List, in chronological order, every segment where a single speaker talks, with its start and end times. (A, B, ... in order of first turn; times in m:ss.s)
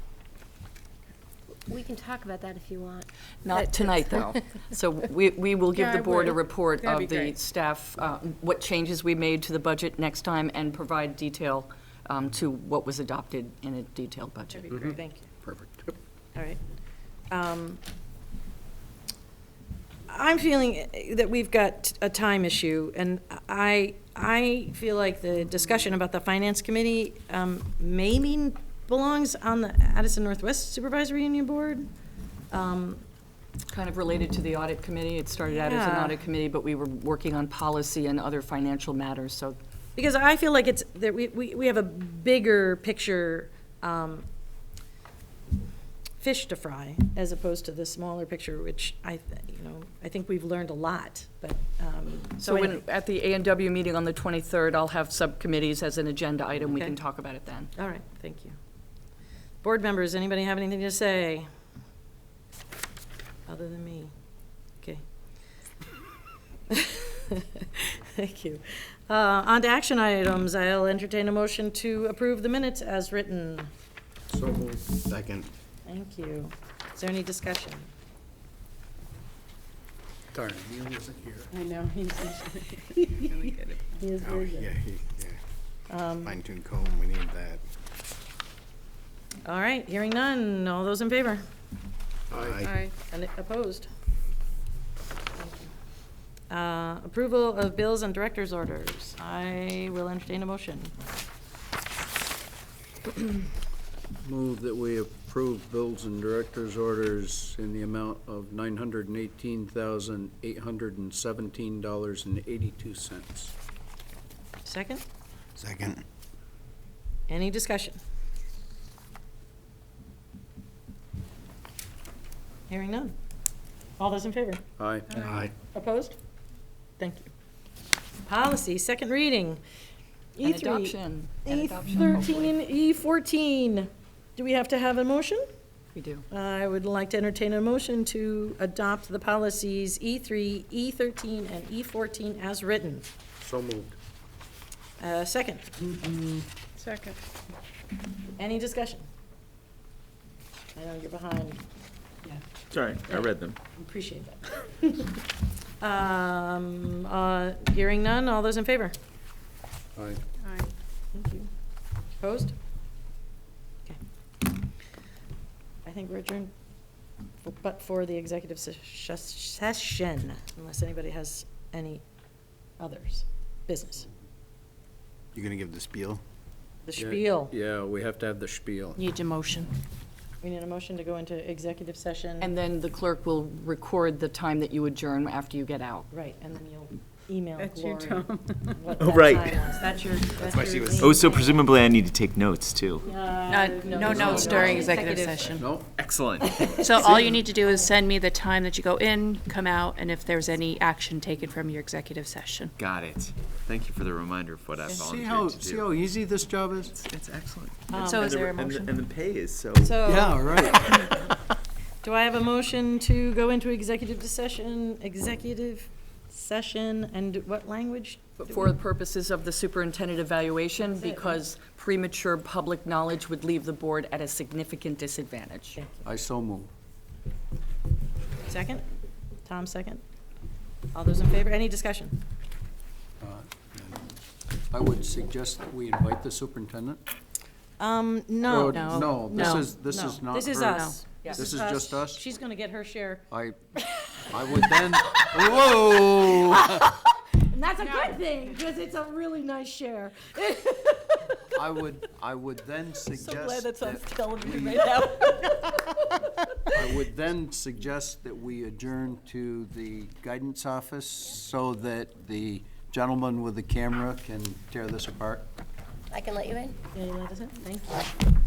0:01.7-0:04.0 A
0:03.4-0:14.7 B
0:05.7-0:07.4 C
0:14.6-0:15.3 D
0:14.7-0:15.9 E
0:17.3-0:17.8 D
0:20.1-0:31.9 D
0:32.5-0:33.0 D
0:33.7-0:39.6 B
0:35.5-0:36.2 D
0:40.0-0:44.2 D
0:46.2-0:52.8 D
0:52.4-0:57.7 B
0:56.7-0:57.0 D
0:57.8-0:58.6 D
0:59.6-1:01.5 D
1:03.5-1:04.1 D
1:06.7-1:13.7 D
1:14.3-1:15.0 E
1:14.9-1:15.5 F
1:15.9-1:17.9 D
1:20.3-1:21.5 E
1:21.5-1:24.1 C
1:23.0-1:23.4 D
1:24.0-1:24.8 D
1:24.2-1:25.4 F
1:25.9-1:26.4 D
1:26.2-1:27.6 F
1:29.4-1:31.4 D
1:32.3-1:32.8 F
1:32.4-1:32.9 C
1:33.1-1:33.9 D
1:35.4-1:35.7 D
1:36.5-1:40.9 D
1:44.2-1:53.6 E
1:54.6-1:55.0 D
1:55.6-1:56.0 F
1:57.3-1:58.0 D
2:02.7-2:03.1 D
2:04.0-2:04.6 D
2:04.8-2:05.1 E
2:05.1-2:05.5 F
2:05.6-2:06.2 D
2:07.0-2:07.3 D
2:08.3-2:09.6 D
2:10.4-2:15.4 D
2:10.4-2:12.6 B
2:16.0-2:16.3 B
2:16.3-2:23.1 D
2:23.4-2:24.0 E
2:25.0-2:25.7 D
2:25.9-2:26.4 E
2:26.8-2:27.2 C
2:28.4-2:29.0 D
2:30.8-2:31.6 D
2:32.7-2:33.6 G
2:33.7-2:35.3 D
2:35.8-2:39.0 D
2:40.0-2:40.2 E
2:40.4-2:40.7 C
2:41.1-2:41.5 D
2:42.2-2:42.6 D
2:45.8-2:46.5 D
2:47.4-2:52.0 D
2:52.8-2:54.1 D
2:55.4-2:56.2 F
2:56.9-2:57.5 D
2:57.0-2:59.0 E
2:59.0-2:59.7 H
3:00.4-3:02.5 D
3:02.4-3:06.1 B
3:06.1-3:11.6 D
3:07.6-3:08.9 C
3:09.0-3:09.7 G
3:10.4-3:11.1 F
3:10.4-3:13.1 G
3:13.0-3:15.6 D
3:13.5-3:15.7 H
3:14.0-3:15.0 G
3:15.5-3:15.9 E
3:16.0-3:17.4 G
3:16.4-3:17.8 D
3:16.8-3:22.7 H
3:22.8-3:26.0 G
3:24.8-3:27.0 E
3:26.9-3:30.0 G
3:27.9-3:28.5 D
3:27.9-3:28.9 H
3:29.8-3:31.1 D
3:30.0-3:31.3 E
3:32.0-3:38.8 D
3:38.4-3:45.8 B
3:40.8-3:41.4 D
3:45.8-3:46.1 D
3:46.0-3:46.7 E
3:48.5-3:48.8 D
3:49.4-3:50.0 D
3:50.9-3:52.2 D
3:53.2-3:53.5 E
3:54.7-3:57.0 E
3:57.8-4:03.3 D
3:58.4-4:02.2 E
3:58.7-3:59.7 H
4:00.7-4:01.0 H
4:03.3-4:03.6 E
4:03.9-4:11.4 D
4:04.3-4:07.0 E
4:07.8-4:08.5 C
4:11.6-4:15.1 E
4:13.0-4:17.0 D
4:16.8-4:25.5 E
4:26.1-4:26.8 A
4:26.9-4:28.1 D